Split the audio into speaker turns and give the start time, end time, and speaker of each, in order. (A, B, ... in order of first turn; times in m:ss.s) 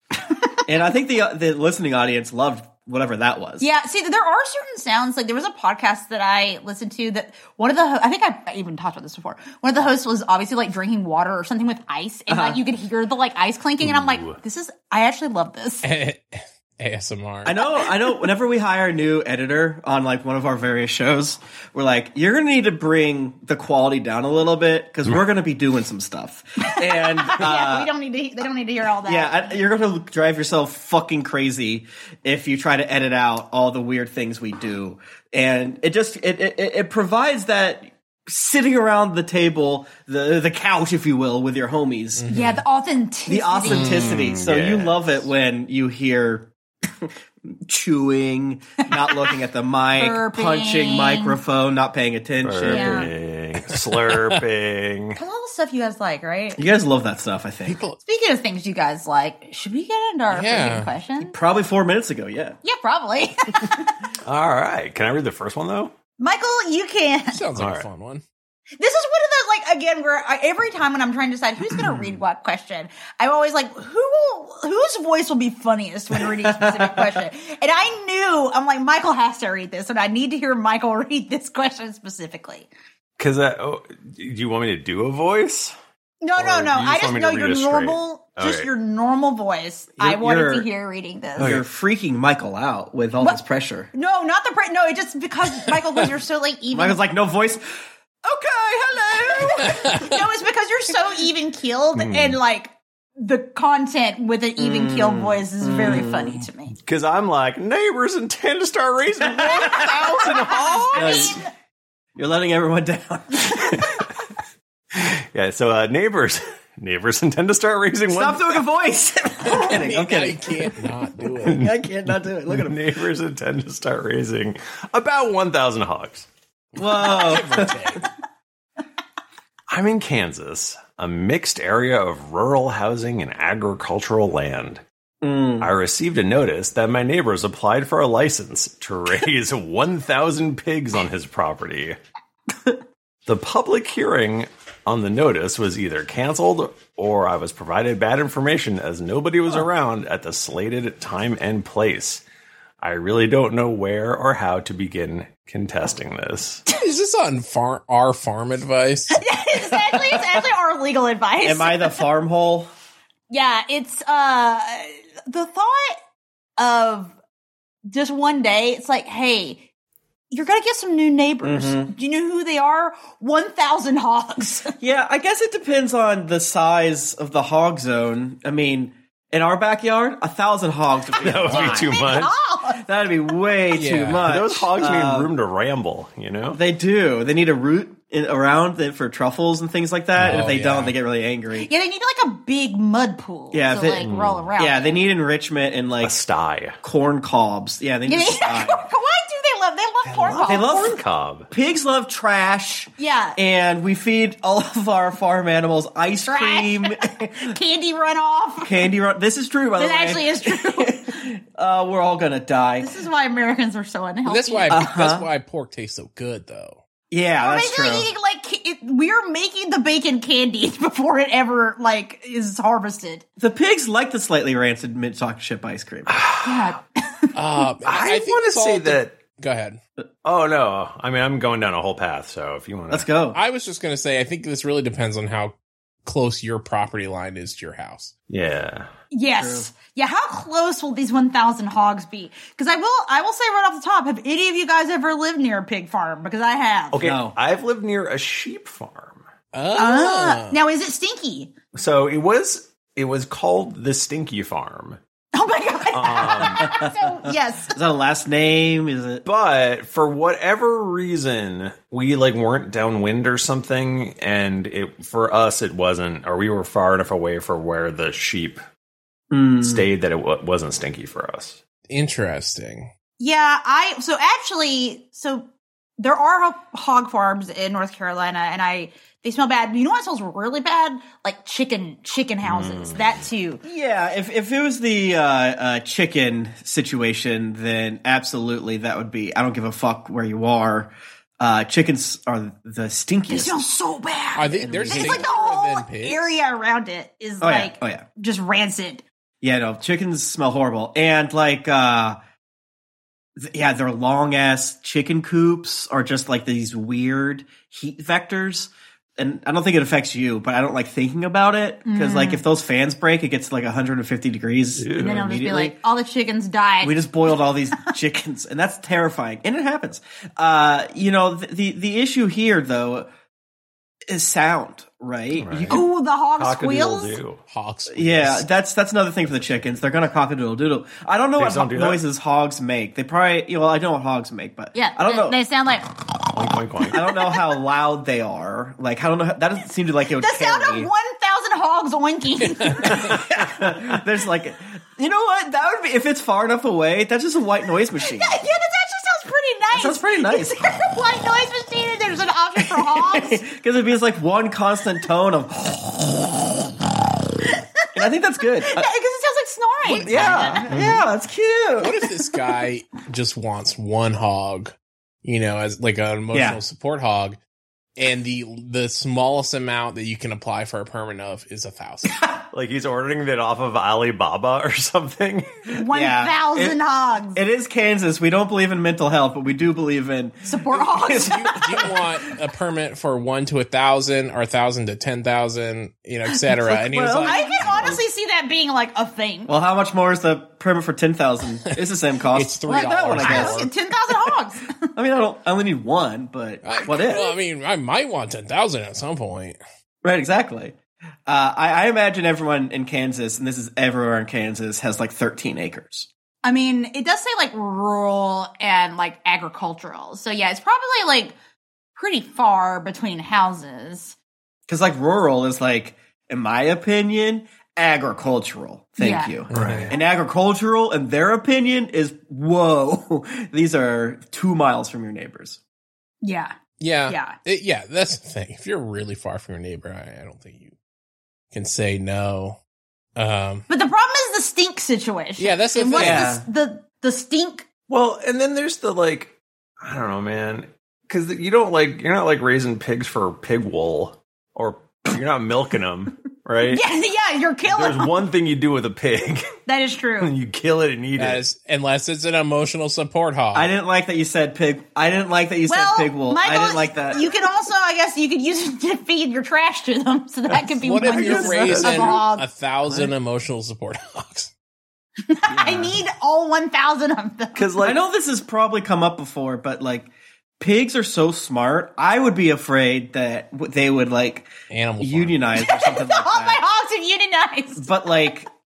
0:00.6-0:03.7 A
0:03.6-0:15.8 B
0:12.3-0:12.6 A
0:13.8-0:14.4 C
0:15.8-0:17.6 D
0:17.4-0:27.9 A
0:26.6-0:29.4 B
0:29.0-0:42.2 A
0:42.2-0:42.6 D
0:42.3-0:44.0 B
0:43.3-0:53.1 A
0:43.7-0:45.1 C
0:50.0-0:51.4 B
0:52.4-0:55.2 C
0:52.7-0:53.1 B
0:53.7-0:54.4 D
0:55.1-0:56.6 B
0:56.6-0:57.8 A
0:57.6-0:58.0 D
0:58.0-1:01.4 B
1:00.3-1:00.9 D
1:01.2-1:02.6 A
1:02.6-1:04.0 B
1:04.2-1:05.9 C
1:06.2-1:07.4 B
1:07.3-1:08.2 D
1:07.6-1:07.9 C
1:08.8-1:22.7 B
1:16.3-1:17.1 A
1:23.2-1:25.8 C
1:26.2-1:31.5 B
1:26.4-1:28.7 C
1:30.0-1:30.7 A
1:31.4-1:31.6 C
1:31.4-1:33.9 A
1:33.9-1:37.0 B
1:36.7-1:40.0 A
1:39.1-1:46.7 B
1:39.8-1:40.1 D
1:42.0-1:42.4 C
1:44.6-1:45.5 A
1:45.6-1:51.4 C
1:49.2-1:50.0 A
1:49.6-1:50.6 D
1:49.7-1:51.5 B
1:50.9-1:51.4 A
1:52.2-1:54.0 A
1:53.7-1:54.0 C
1:54.9-1:58.6 C
1:58.1-2:00.8 A
1:59.4-2:01.6 D
2:01.3-2:06.3 C
2:01.5-2:02.8 A
2:06.8-2:08.0 A
2:06.8-2:08.1 D
2:09.7-2:14.8 C
2:15.2-2:15.7 A
2:15.6-2:22.0 C
2:23.2-2:32.2 C
2:32.8-2:36.6 C
2:36.7-2:39.2 D
2:39.1-2:42.0 B
2:39.5-2:40.3 A
2:41.4-2:42.7 A
2:43.3-2:46.0 B
2:46.6-2:47.1 B
2:47.9-2:49.6 B
2:50.3-2:54.8 B
2:51.4-2:51.9 A
2:54.8-3:02.2 A
3:01.1-3:02.3 C
3:01.5-3:02.8 B
3:02.7-3:05.3 A
3:03.7-3:04.2 D
3:04.1-3:06.6 C
3:06.5-3:11.7 A
3:10.2-3:10.5 C
3:10.2-3:10.9 D
3:11.5-3:15.0 B
3:13.5-3:16.2 A
3:14.0-3:14.5 C
3:16.0-3:16.8 C
3:16.8-3:18.8 A
3:18.0-3:20.8 B
3:20.0-3:21.5 C
3:20.4-3:27.5 A
3:23.0-3:23.4 B
3:26.3-3:28.9 B
3:28.6-3:32.9 A
3:29.8-3:31.0 B
3:32.8-3:34.9 B
3:34.2-3:36.8 D
3:34.7-3:35.3 A
3:37.1-3:38.1 A
3:37.4-3:43.2 B
3:43.4-3:46.2 A
3:46.1-3:46.6 C
3:46.4-3:47.4 B
3:47.3-3:49.8 D
3:47.8-3:49.2 C
3:50.2-3:53.1 C
3:52.9-3:53.4 A
3:53.3-3:58.1 D
3:58.3-3:58.9 C
3:59.1-4:07.0 B
3:59.4-3:59.7 A
4:06.9-4:09.2 C
4:07.0-4:07.3 A
4:09.5-4:10.6 D
4:09.8-4:11.5 B
4:11.7-4:15.0 C
4:15.3-4:17.7 B
4:15.9-4:16.7 C
4:16.4-4:16.9 A
4:17.7-4:19.2 A
4:19.2-4:28.6 C
4:29.3-4:29.8 A
4:29.6-4:31.6 C
4:31.9-4:32.9 D
4:33.2-4:35.4 B
4:36.0-4:43.6 B
4:42.4-4:43.3 C
4:43.6-4:53.6 A
4:53.3-4:59.0 B
4:54.4-4:56.4 D
4:54.6-4:55.3 A
4:57.4-4:58.0 A
4:59.4-5:02.2 A
5:03.4-5:15.8 A
5:11.8-5:12.4 B
5:14.8-5:15.4 C
5:14.9-5:17.0 B
5:16.8-5:23.1 A
5:24.1-5:25.8 A
5:25.3-5:27.4 C
5:25.7-5:27.2 B
5:27.5-5:28.4 D
5:27.9-5:35.4 A
5:31.4-5:32.0 C
5:34.7-5:36.3 B
5:36.3-5:37.0 C
5:36.9-5:40.9 A
5:37.0-5:37.4 B
5:40.2-5:43.1 B
5:42.6-5:43.1 D
5:42.9-5:48.3 A
5:48.0-5:53.4 B
5:49.7-5:50.6 A
5:52.6-5:56.8 A
5:57.9-5:58.8 A
5:58.6-6:00.7 B
5:59.8-6:02.0 A
6:00.0-6:00.6 D
6:00.7-6:01.0 C
6:01.8-6:07.4 D
6:06.3-6:06.6 A
6:08.0-6:12.2 D
6:12.5-6:15.8 C
6:15.7-6:17.4 B
6:15.9-6:16.8 A
6:17.3-6:21.9 A
6:20.4-6:21.9 B
6:21.1-6:28.0 D
6:26.5-6:28.0 A
6:27.2-6:29.5 B
6:29.5-6:33.6 A
6:32.3-6:33.7 D
6:32.7-6:34.9 B
6:34.9-6:37.3 A
6:36.6-6:39.6 D
6:40.0-6:40.8 A
6:41.3-6:46.1 A
6:46.4-6:51.3 B
6:51.9-6:54.2 B
6:54.7-7:05.6 A
6:59.0-6:59.4 B
6:59.5-6:59.9 D
6:59.5-6:59.9 C
7:06.2-7:06.6 B
7:06.8-7:10.7 D
7:07.1-7:07.4 B
7:11.5-7:12.6 D
7:13.2-7:13.6 D
7:13.7-7:17.6 B
7:15.4-7:16.3 D
7:15.9-7:16.4 A
7:17.9-7:26.8 C
7:26.7-7:28.1 B
7:27.7-7:29.6 C
7:29.6-7:30.3 B
7:30.2-7:31.4 C
7:31.2-7:33.7 D
7:33.5-7:37.2 A
7:35.7-7:42.4 B
7:40.8-7:44.5 D
7:41.0-7:42.2 C
7:41.4-7:41.9 A
7:42.9-7:43.1 A
7:45.2-7:47.6 B
7:45.5-7:46.0 A
7:47.5-7:48.0 C
7:47.8-7:50.1 A
7:50.6-7:54.5 A
7:54.7-7:55.4 D
7:55.0-7:56.6 A
7:55.6-7:58.2 B
7:57.7-7:58.5 A